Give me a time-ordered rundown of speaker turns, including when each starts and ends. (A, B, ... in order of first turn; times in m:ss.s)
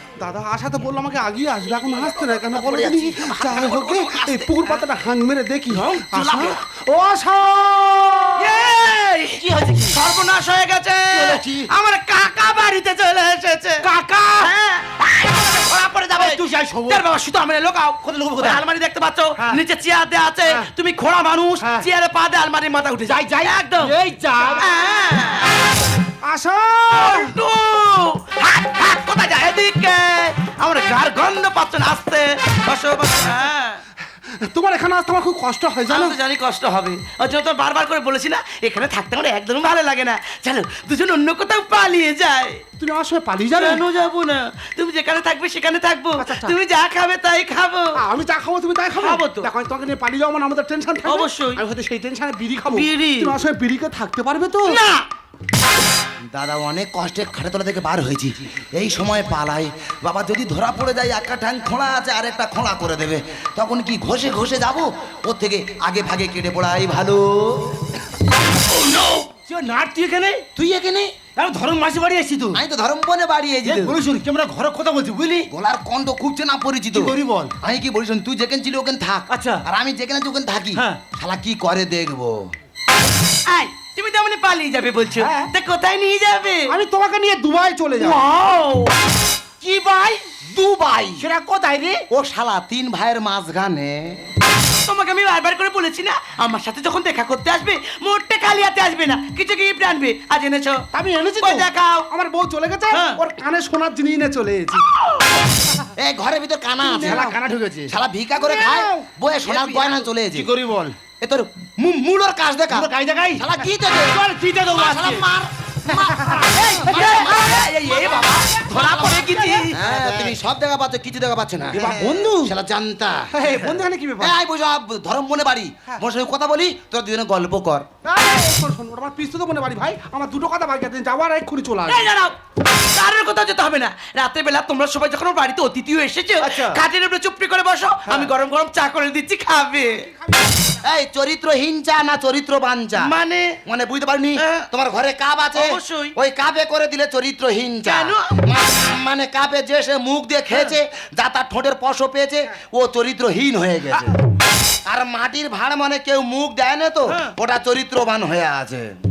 0:00.2-0:08.5 A
0:02.5-0:04.1 B
0:03.4-0:04.7 C
0:05.7-0:06.6 C
0:08.4-0:24.0 C
0:09.4-0:10.0 D
0:11.2-0:11.6 B
0:13.8-0:14.5 D
0:16.1-0:17.0 D
0:18.0-0:18.6 D
0:21.6-0:21.8 D
0:23.1-0:24.7 D
0:24.5-0:25.6 C
0:26.2-0:27.3 A
0:26.9-0:33.8 C
0:34.2-0:36.2 A
0:35.9-0:42.6 C
0:42.8-0:43.8 A
0:43.6-0:48.0 C
0:46.2-0:46.6 A
0:48.0-0:54.8 A
0:49.0-0:49.5 C
0:51.0-0:51.6 C
0:52.7-0:53.4 C
0:56.3-1:07.9 B
1:09.4-1:10.4 D
1:10.6-1:11.1 B
1:11.4-1:12.6 D
1:12.5-1:14.0 B
1:13.6-1:15.5 D
1:15.5-1:22.5 B
1:16.9-1:17.5 D
1:19.3-1:19.6 D
1:20.7-1:21.0 D
1:23.5-1:26.7 C
1:26.7-1:28.2 A
1:28.0-1:28.9 D
1:29.6-1:30.3 D
1:30.4-1:31.3 B
1:31.2-1:32.0 D
1:32.1-1:34.2 B
1:34.8-1:40.8 C
1:40.9-1:44.8 A
1:41.4-1:42.1 C
1:42.9-1:43.2 C
1:46.0-1:47.3 B
1:46.9-1:47.9 D
1:47.0-1:47.3 A
1:47.9-1:50.5 B
1:48.6-1:49.0 A
1:49.6-1:51.0 D
1:51.2-1:54.2 B
1:52.7-1:53.5 D
1:54.0-1:55.3 D
1:54.7-1:57.7 B
1:55.9-1:56.9 A
1:56.6-1:59.7 C
1:58.5-1:59.6 A
1:59.7-2:07.8 B
1:59.7-2:00.4 D
2:01.7-2:02.5 A
2:01.8-2:02.3 D
2:03.3-2:04.3 A
2:08.0-2:12.1 A
2:11.9-2:20.0 C
2:16.4-2:16.8 D
2:20.8-2:23.1 B
2:23.0-2:23.6 C
2:23.6-2:34.1 B
2:24.4-2:24.7 C
2:25.5-2:26.1 C
2:27.8-2:28.4 C
2:34.8-2:38.9 B
2:37.1-2:37.3 C